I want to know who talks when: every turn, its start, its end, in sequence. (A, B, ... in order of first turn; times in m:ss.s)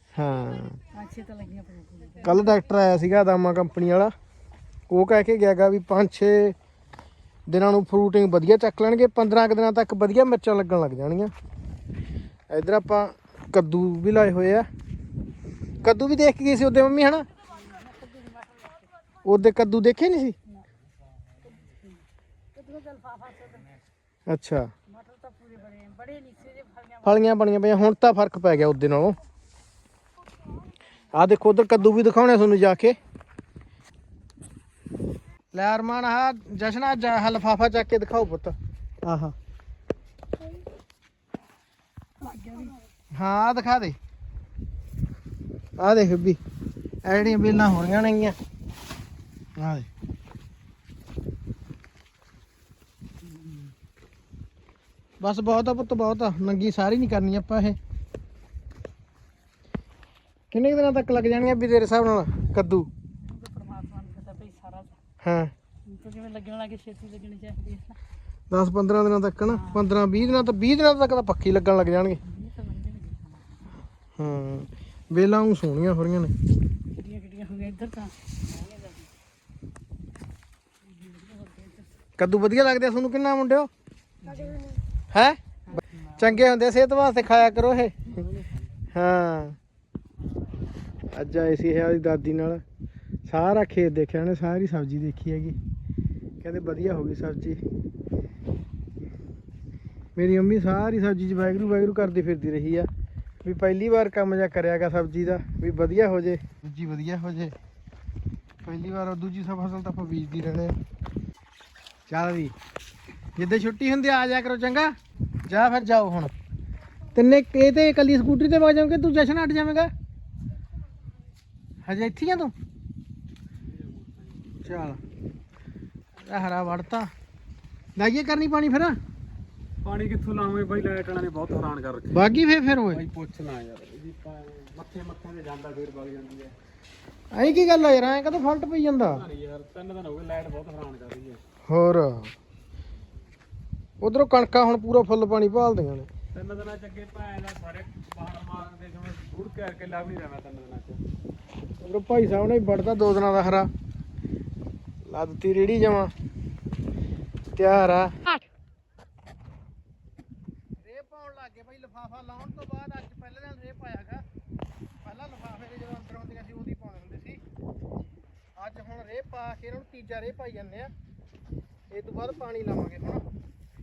0:00.2-0:00.8 A
0:00.9-0:02.3 B
0:02.2-0:04.1 A
0:04.9-0:06.6 A
0:07.5-0:11.3 A
0:12.5-0:14.7 A
0:15.8-0:17.3 A
0:17.6-0:18.8 B
0:19.2-0:20.4 A
0:21.6-0:22.0 B
0:22.6-0:23.8 B
0:24.3-0:24.7 A
0:24.9-0:27.1 B
0:27.0-0:29.2 A
0:31.1-0:33.0 A
0:35.5-0:39.4 A
0:42.2-0:42.8 B
0:43.1-0:44.0 A
0:45.8-0:46.4 A
0:47.0-0:48.4 A
0:49.6-0:49.9 A
0:55.2-0:57.8 A
1:00.5-1:02.9 A
1:03.2-1:05.0 B
1:05.2-1:05.5 A
1:05.9-1:08.0 B
1:08.5-1:12.2 A
1:09.5-1:09.9 B
1:12.2-1:13.6 B
1:14.2-1:16.3 A
1:17.0-1:19.1 B
1:20.9-1:21.9 B
1:22.2-1:23.7 A
1:24.3-1:24.5 C
1:24.3-1:24.8 B
1:25.1-1:25.4 A
1:26.0-1:28.2 A
1:28.9-1:29.6 A
1:31.1-1:32.6 A
1:33.3-1:35.6 A
1:36.4-1:37.6 A
1:40.2-1:42.9 A
1:43.4-1:47.6 A
1:48.6-1:50.8 A
1:52.1-1:52.5 A
1:53.4-1:55.0 A
1:55.5-1:56.3 A
1:57.2-1:59.9 A
2:01.9-2:02.5 A
2:03.7-2:04.6 C
2:04.6-2:05.0 A
2:06.2-2:07.1 A
2:08.0-2:09.0 A
2:09.8-2:12.3 C
2:12.1-2:13.0 A
2:12.9-2:16.6 C
2:17.3-2:19.3 A
2:19.1-2:21.4 C
2:21.7-2:22.3 A
2:24.0-2:26.1 A
2:26.3-2:31.0 C
2:31.8-2:33.7 A
2:35.0-2:36.1 A
2:37.6-2:38.4 A
2:40.8-2:44.2 A
2:45.0-2:47.4 A
2:48.6-2:50.9 A
2:51.9-2:53.2 A